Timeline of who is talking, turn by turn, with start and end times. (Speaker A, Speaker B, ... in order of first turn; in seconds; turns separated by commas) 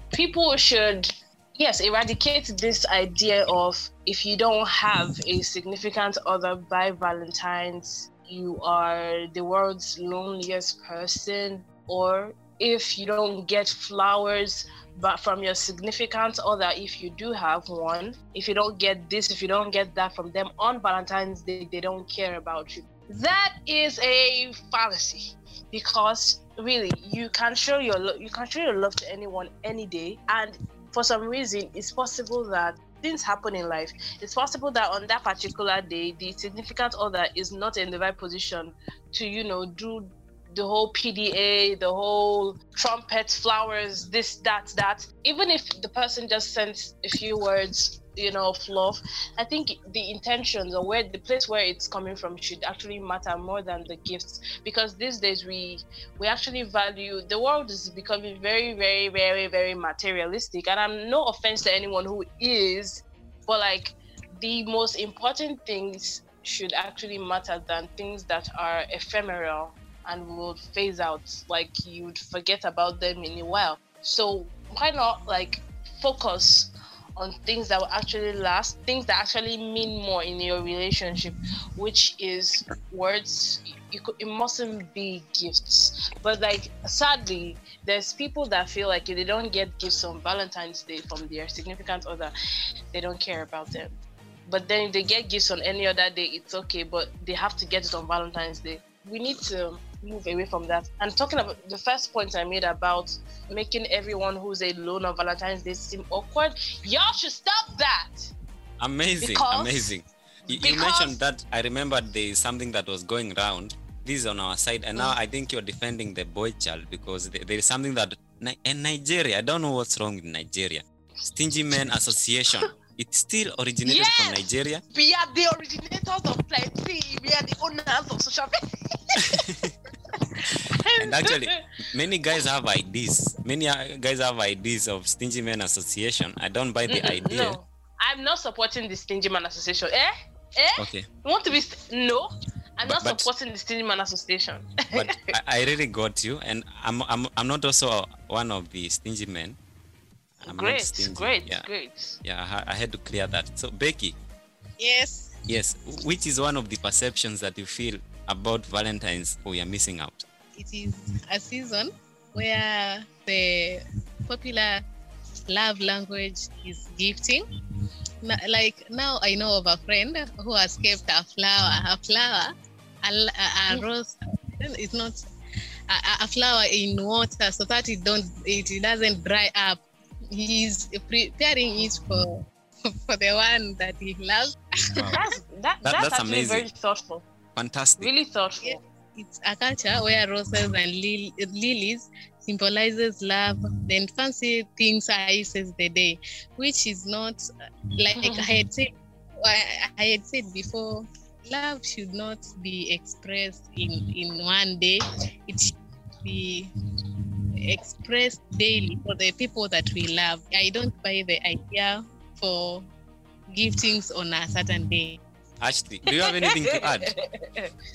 Speaker A: 0.1-92.3, Speaker A: 92.9-108.3, Speaker B: 108.8-124.8, Speaker A: 109.2-109.9, Speaker A: 110.5-111.2, Speaker A: 123.8-129.4, Speaker B: 129.3-129.7, Speaker A: 130.2-131.6, Speaker B: 131.0-137.6, Speaker A: 136.9-145.3, Speaker B: 140.8-141.1, Speaker B: 142.8-143.3, Speaker B: 144.9-149.6, Speaker B: 150.4-151.7, Speaker A: 150.4-152.2, Speaker B: 152.2-154.2, Speaker C: 154.8-155.3, Speaker B: 155.5-160.2, Speaker C: 160.6-164.8, Speaker C: 165.5-167.4, Speaker C: 168.2-172.5, Speaker C: 173.0-175.2, Speaker C: 175.9-179.8, Speaker C: 180.3-182.4, Speaker A: 181.7-182.0, Speaker C: 183.0-185.2, Speaker A: 185.1-187.2, Speaker B: 185.8-186.7, Speaker B: 187.5-188.1, Speaker A: 188.0-188.8, Speaker C: 188.6-197.4, Speaker C: 198.0-198.9, Speaker A: 198.2-198.6, Speaker C: 199.4-205.6, Speaker C: 206.2-206.7, Speaker C: 207.7-212.8, Speaker C: 213.5-215.2, Speaker B: 215.6-217.1, Speaker A: 216.1-217.7